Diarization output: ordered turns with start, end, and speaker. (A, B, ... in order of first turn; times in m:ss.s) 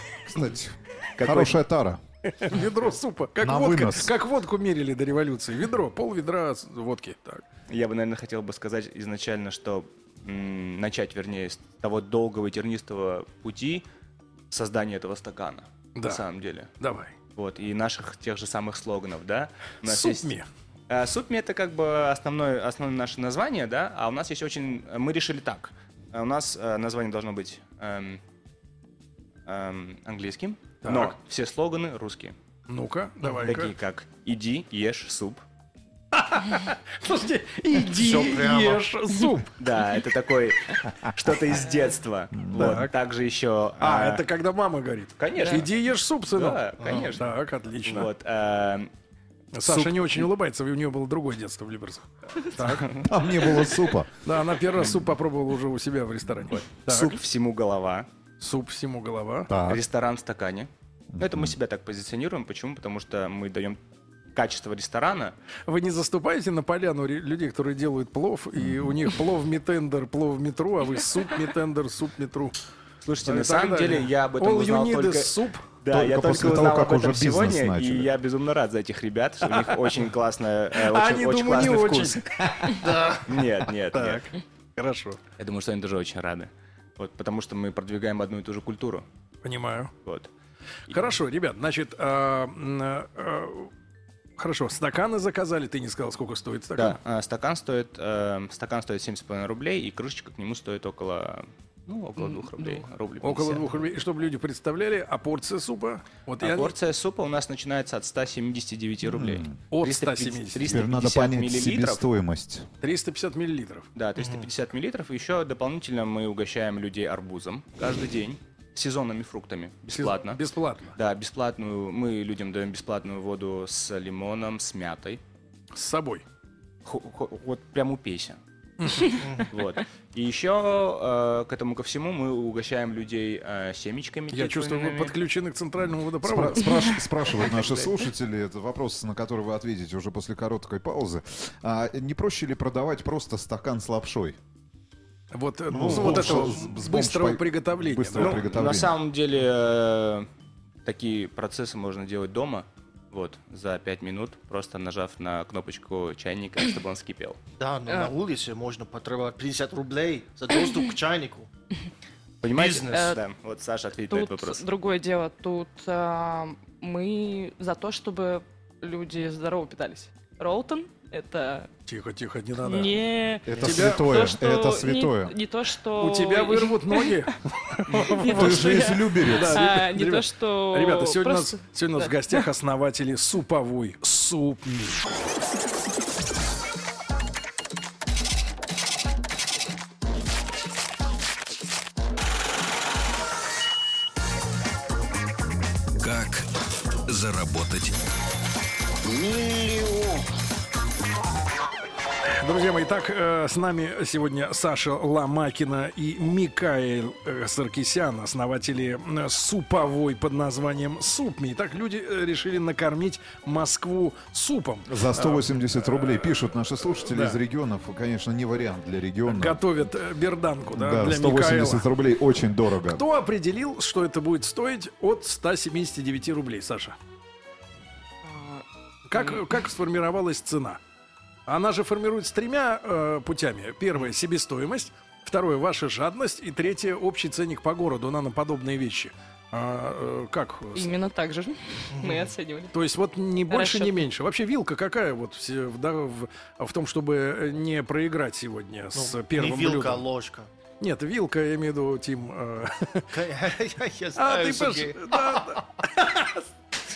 0:00.2-0:02.0 A
0:01.2-0:01.6 B
0:02.3-0:07.4 C
0:03.4-0:04.1 A
0:07.7-0:13.8 B
0:14.5-0:16.7 B
0:15.9-0:16.2 C
0:16.8-0:17.1 C
0:17.3-0:20.3 B
0:19.8-0:20.5 C
0:20.9-0:28.2 B
0:29.4-0:32.4 B
0:30.8-0:31.1 C
0:32.7-0:33.7 C
0:33.4-0:35.4 B
0:36.1-0:39.5 C
0:37.9-0:38.8 D
0:39.6-0:44.3 B
0:42.4-0:42.8 A
0:42.5-0:42.9 C
0:43.8-0:48.1 C
0:45.2-0:45.7 B
0:46.3-0:47.3 B
0:46.8-0:47.1 D
0:47.8-0:48.9 B
0:49.5-0:53.0 C
0:49.6-0:50.2 B
0:52.6-0:53.4 B
0:52.9-0:54.1 A
0:54.2-0:57.2 C
0:56.5-0:58.1 B
0:58.4-0:59.5 C
0:59.5-0:59.8 A
0:59.6-1:03.8 B
1:01.1-1:01.5 A
1:04.3-1:05.3 B
1:05.6-1:12.5 C
1:08.6-1:09.0 A
1:13.0-1:22.5 B
1:13.2-1:15.7 C
1:15.9-1:18.1 A
1:19.5-1:19.9 C
1:20.7-1:25.2 C
1:22.8-1:23.2 D
1:23.2-1:24.3 B
1:25.4-1:29.0 B
1:29.4-1:29.9 C
1:30.0-1:30.3 B
1:30.9-1:33.7 C
1:34.4-1:37.0 C
1:36.7-1:43.7 B
1:43.2-1:46.7 C
1:46.4-1:52.0 B
1:49.0-1:49.6 A
1:49.7-1:50.8 C
1:50.6-1:52.7 A
1:52.8-1:53.9 C
1:53.9-2:00.4 B
1:54.2-1:54.5 D
1:59.9-2:00.9 C
2:00.9-2:05.2 B
2:05.7-2:06.2 C
2:06.8-2:08.4 B
2:08.8-2:09.1 C
2:09.0-2:15.2 B
2:09.2-2:09.5 D
2:14.3-2:17.0 C
2:16.2-2:24.4 A
2:25.3-2:28.4 C
2:25.7-2:28.9 A
2:25.8-2:26.5 D
2:28.2-2:30.3 B
2:30.8-2:37.4 B
2:37.6-2:41.5 D
2:37.9-2:38.1 E
2:42.4-2:44.6 B
2:42.5-2:43.1 D
2:42.8-2:43.2 E
2:44.1-2:51.7 E
2:51.9-2:53.0 C
2:52.6-3:02.4 E
2:53.4-2:55.3 A
2:53.5-2:54.1 C
2:55.9-3:05.1 C
2:58.2-2:59.8 A
3:16.0-3:16.5 F
3:17.0-3:18.0 F
3:19.0-3:20.2 F
3:22.3-3:36.4 C
3:34.8-3:39.6 A
3:37.0-3:37.4 C
3:39.2-3:41.9 C
3:40.7-3:43.0 A
3:42.8-3:47.0 C
3:48.2-3:48.6 E
3:49.1-3:50.8 C
3:51.4-4:00.9 C
4:00.7-4:02.7 E
4:01.9-4:02.3 D
4:02.7-4:10.0 C
4:03.5-4:04.1 E
4:08.9-4:10.5 D
4:10.8-4:13.2 C
4:13.1-4:16.2 D
4:14.2-4:16.4 C